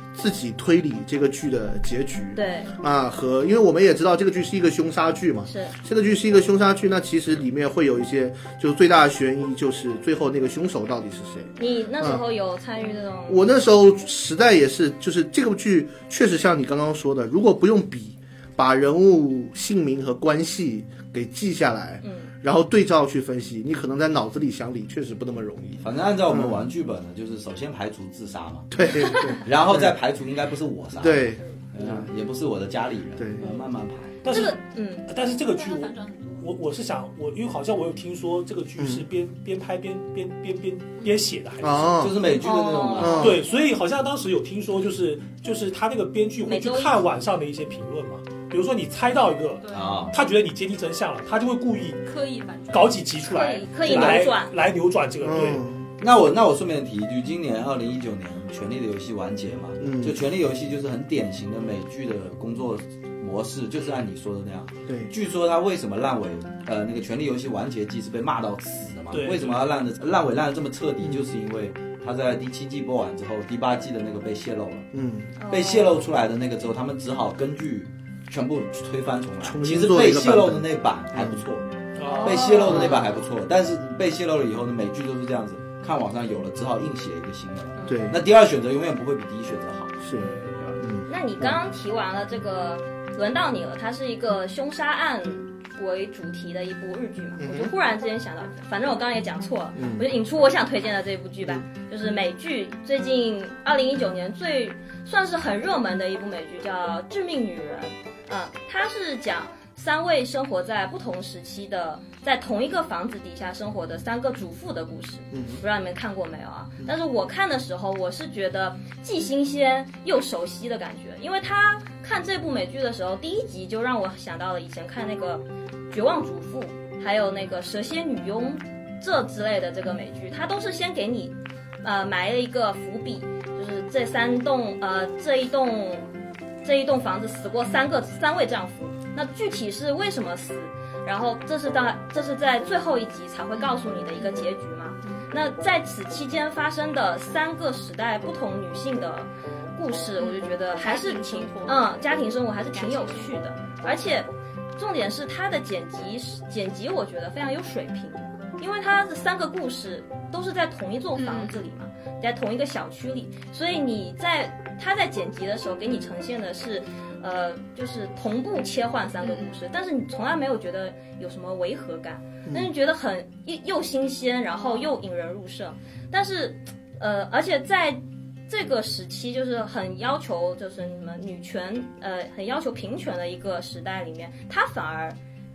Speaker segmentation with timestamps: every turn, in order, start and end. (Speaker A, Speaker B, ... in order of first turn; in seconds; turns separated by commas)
Speaker A: 0.1-12.2, Speaker B: 2.4-2.7, Speaker B: 5.5-5.7, Speaker B: 11.6-13.5, Speaker A: 13.3-26.6, Speaker B: 22.0-22.3, Speaker C: 25.8-28.8, Speaker A: 28.7-30.0, Speaker B: 28.8-29.4, Speaker C: 29.4-34.2, Speaker A: 31.0-32.1, Speaker D: 34.2-42.0, Speaker B: 34.3-35.1, Speaker E: 35.3-36.6, Speaker A: 38.8-39.0, Speaker A: 41.6-42.2, Speaker C: 42.0-43.3, Speaker B: 42.4-43.3, Speaker A: 43.0-43.4, Speaker D: 43.1-52.0, Speaker B: 46.5-47.0, Speaker E: 49.6-50.0, Speaker C: 49.7-50.1, Speaker E: 52.0-53.2, Speaker D: 52.7-55.7, Speaker B: 53.2-54.5, Speaker E: 53.9-54.2, Speaker A: 55.2-55.9, Speaker C: 56.0-74.9, Speaker A: 59.8-60.2, Speaker D: 69.1-69.7, Speaker A: 74.9-75.3, Speaker B: 75.4-76.0, Speaker C: 75.5-81.7, Speaker A: 79.4-81.4, Speaker D: 82.0-82.8, Speaker B: 82.1-83.1, Speaker C: 82.2-90.0, Speaker A: 82.7-83.0, Speaker B: 87.8-88.0, Speaker A: 87.9-88.2, Speaker A: 90.0-91.6, Speaker D: 90.2-90.6, Speaker B: 91.1-136.1, Speaker A: 97.4-97.7, Speaker A: 99.8-100.1, Speaker A: 115.3-115.6, Speaker B: 136.6-185.2, Speaker E: 144.2-144.4, Speaker E: 150.2-152.1, Speaker E: 152.7-153.4, Speaker E: 161.2-161.7, Speaker E: 169.2-169.6